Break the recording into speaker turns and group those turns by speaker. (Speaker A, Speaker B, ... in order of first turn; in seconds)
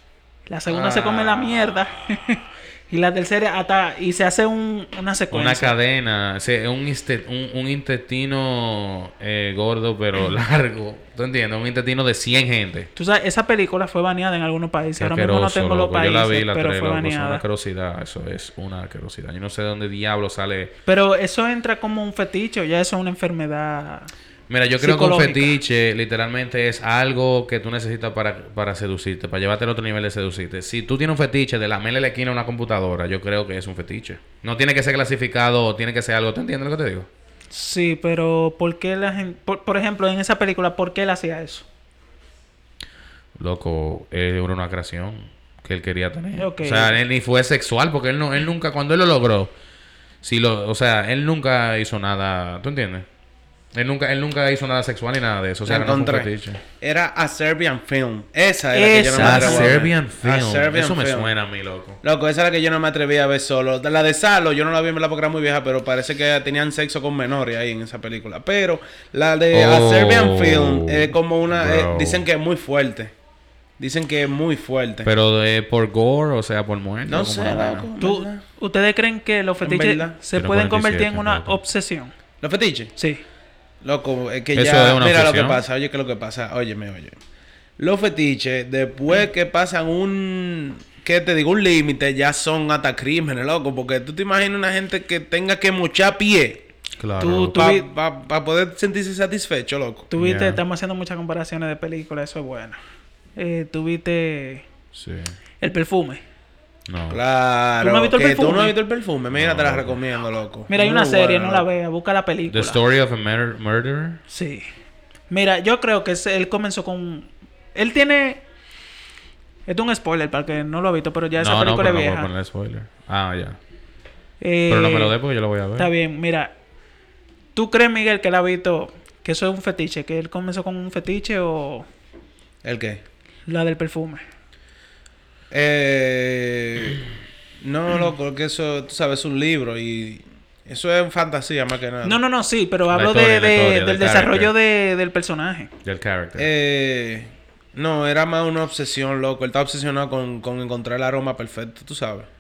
Speaker A: 0.5-5.8, 13.0-17.4, 20.9-24.1, 24.8-25.6, 37.5-41.7, 46.4-47.0, 58.7-59.8, 78.0-82.1, 83.0-83.2, 97.2-97.9, 100.1-102.8, 103.4-104.7, 105.6-106.2, 107.8-108.8, 110.7-112.8, 114.3-114.7, 115.3-118.4, 119.7-122.3, 124.4-125.1, 125.8-126.5, 127.5-131.9, 133.5-134.2, 142.0-145.7
Speaker B: 0.7-1.9, 5.3-12.9, 15.0-20.8, 24.5-37.1, 43.4-49.5, 50.2-53.1, 53.7-56.6, 59.1-62.0, 69.5-72.2, 75.0-77.9, 80.3-81.6, 84.5-85.6, 97.0-97.7, 100.2-100.6, 104.9-105.4, 106.9-107.2, 109.3-110.0, 112.5-114.2, 121.4-123.6, 124.7-125.9, 142.9-144.5, 145.8-146.5
Speaker C: 55.7-61.3, 62.0-73.1, 73.8-75.1, 77.1-78.4, 79.6-80.2, 82.4-83.0, 83.8-87.2, 87.8-96.6, 97.5-100.1, 107.1-111.7, 132.6-133.0, 135.5-137.1, 137.6-142.2, 146.4-152.3